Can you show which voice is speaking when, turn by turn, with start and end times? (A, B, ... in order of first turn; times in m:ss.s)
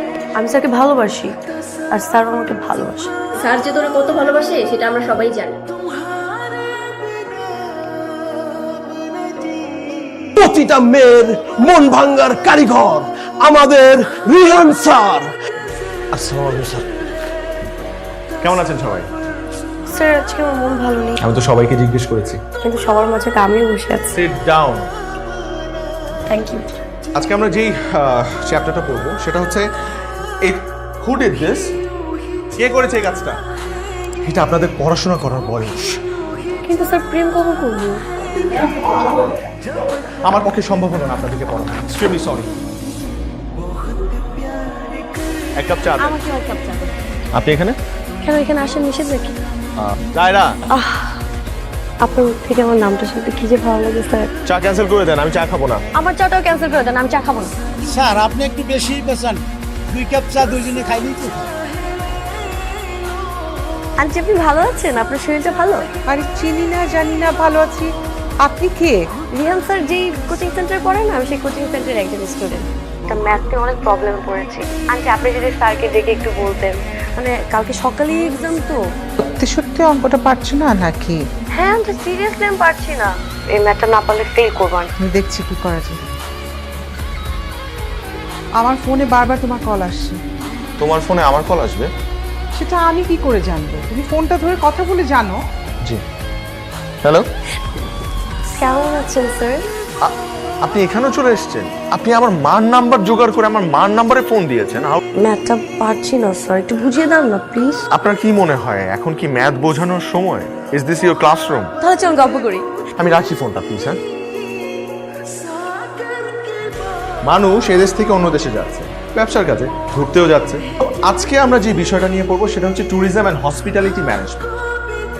0:00.4-0:01.3 A
0:01.9-0:03.1 A
0:03.4-0:05.6 B
0:10.4-0:15.3 C
0:16.1-0:16.9 C
0:18.4-0:19.1 D
0:19.9-0:21.2 A
0:21.2-0:22.4 D
0:22.6-0:24.1 A
0:24.1-0:24.9 D
0:26.3-0:26.6 A
0:27.2-0:29.6 D
0:30.5-0:31.6 D
0:32.6-0:33.4 D
0:34.2-0:36.0 D
0:36.6-0:38.0 A
0:38.7-0:39.2 D
0:40.3-0:42.5 D
0:45.6-0:46.2 D
0:46.0-0:46.9 A
0:47.3-0:47.8 D
0:48.2-0:49.3 A
0:49.8-0:50.5 D
0:50.7-0:51.2 A
0:52.0-0:54.3 A
0:54.5-0:55.8 D
0:55.9-0:57.5 A
0:57.8-1:01.5 E
1:04.0-1:05.8 A
1:06.1-1:07.9 F
1:08.4-1:09.0 F
1:09.3-1:18.8 A
1:19.4-1:21.2 F
1:21.5-1:24.9 A
1:25.0-1:26.0 F
1:28.6-1:30.2 F
1:30.8-1:31.9 D
1:32.6-1:35.4 F
1:38.6-1:39.6 A
1:40.0-1:45.0 D
1:45.2-1:47.8 A
1:47.9-1:51.7 D
1:51.8-1:52.6 A
1:53.0-1:54.0 D
1:57.3-2:04.5 D